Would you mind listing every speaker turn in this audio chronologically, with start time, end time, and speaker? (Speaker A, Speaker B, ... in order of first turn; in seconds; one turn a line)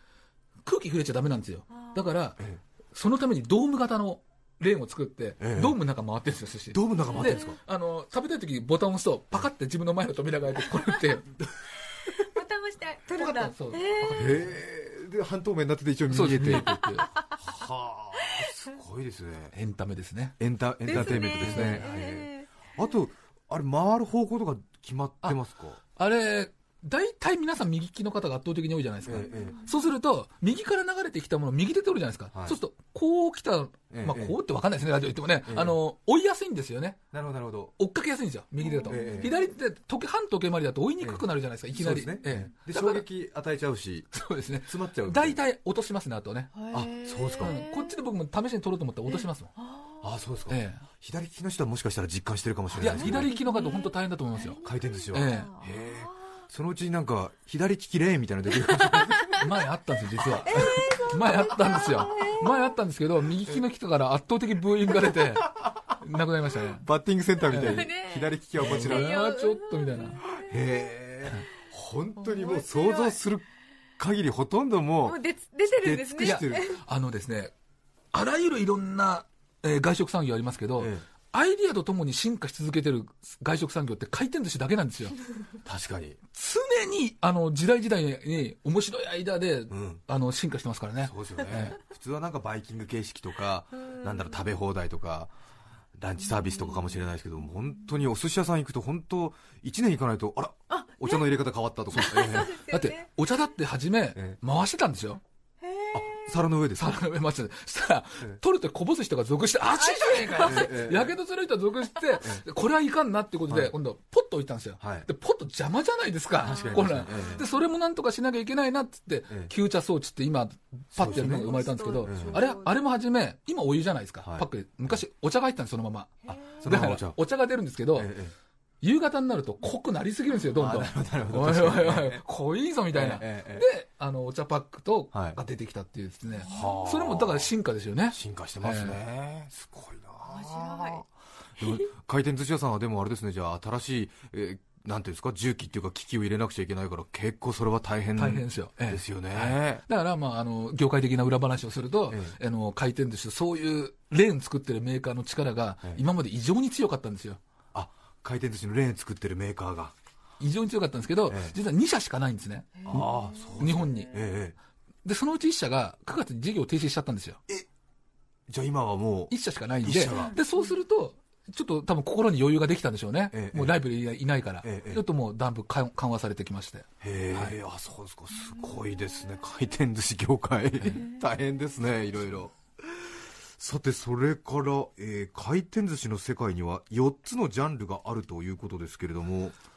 Speaker A: 0.6-2.4
Speaker B: 1.7-2.0
Speaker A: 2.9-11.3
Speaker C: 5.4-5.8
Speaker C: 6.7-7.6
Speaker B: 7.2-7.5
Speaker B: 12.0-14.3
Speaker A: 13.1-14.6
Speaker C: 14.1-19.5
Speaker A: 16.1-17.1
Speaker B: 16.6-17.4
Speaker B: 18.2-18.5
Speaker A: 19.5-22.0
Speaker C: 20.4-25.8
Speaker B: 20.9-22.5
Speaker A: 25.9-37.0
Speaker C: 29.0-29.6
Speaker B: 29.2-29.8
Speaker C: 32.3-32.6
Speaker C: 33.9-34.4
Speaker C: 35.5-35.8
Speaker C: 37.1-37.7
Speaker A: 37.8-43.0
Speaker B: 38.6-39.3
Speaker C: 38.9-39.4
Speaker C: 41.0-45.4
Speaker A: 44.1-46.5
Speaker B: 46.5-48.0
Speaker C: 46.7-47.6
Speaker A: 47.4-49.5
Speaker B: 49.1-50.0
Speaker C: 50.0-53.3
Speaker A: 50.5-50.8
Speaker A: 52.8-54.6
Speaker B: 52.8-56.2
Speaker C: 54.6-59.4
Speaker A: 55.1-55.5
Speaker B: 58.6-59.4
Speaker A: 59.4-66.8
Speaker B: 60.5-62.8
Speaker C: 66.8-69.2
Speaker A: 67.5-67.9
Speaker B: 67.5-70.5
Speaker A: 68.6-70.2
Speaker C: 70.4-73.4
Speaker B: 72.2-73.2
Speaker C: 74.0-75.2
Speaker B: 75.0-76.8
Speaker C: 75.8-76.7
Speaker A: 76.2-77.5
Speaker A: 78.1-85.2
Speaker C: 80.8-81.0
Speaker C: 85.6-86.2
Speaker A: 86.3-91.8
Speaker C: 89.7-90.0
Speaker C: 91.0-95.3
Speaker B: 93.9-94.2
Speaker C: 95.9-102.6
Speaker B: 96.3-96.9
Speaker B: 100.7-101.4
Speaker B: 101.9-103.1
Speaker A: 102.7-105.2
Speaker B: 105.6-106.4
Speaker C: 105.9-107.0
Speaker A: 106.8-128.1
Speaker B: 109.8-110.7
Speaker C: 110.4-111.1
Speaker C: 114.8-115.1
Speaker C: 116.4-117.5
Speaker B: 116.4-117.6
Speaker C: 120.9-122.4
Speaker B: 121.0-122.8
Speaker C: 124.2-125.0
Speaker B: 126.2-126.6
Speaker C: 126.4-127.2
Speaker C: 127.9-128.3
Speaker A: 128.8-139.0
Speaker C: 130.5-132.2
Speaker C: 132.9-133.7
Speaker C: 135.1-135.4
Speaker C: 136.4-137.5
Speaker B: 136.4-136.8
Speaker C: 138.1-141.1
Speaker B: 140.3-141.0
Speaker C: 141.6-149.8
Speaker A: 148.2-157.4
Speaker C: 152.1-152.3
Speaker C: 157.7-159.9
Speaker A: 160.4-164.1
Speaker C: 161.3-161.6
Speaker B: 162.8-163.9
Speaker C: 162.9-164.6
Speaker A: 165.0-167.4
Speaker C: 168.5-170.3
Speaker A: 169.3-177.6
Speaker B: 170.1-170.6
Speaker C: 173.3-173.8
Speaker C: 174.6-175.0
Speaker C: 177.0-189.6
Speaker B: 178.3-179.1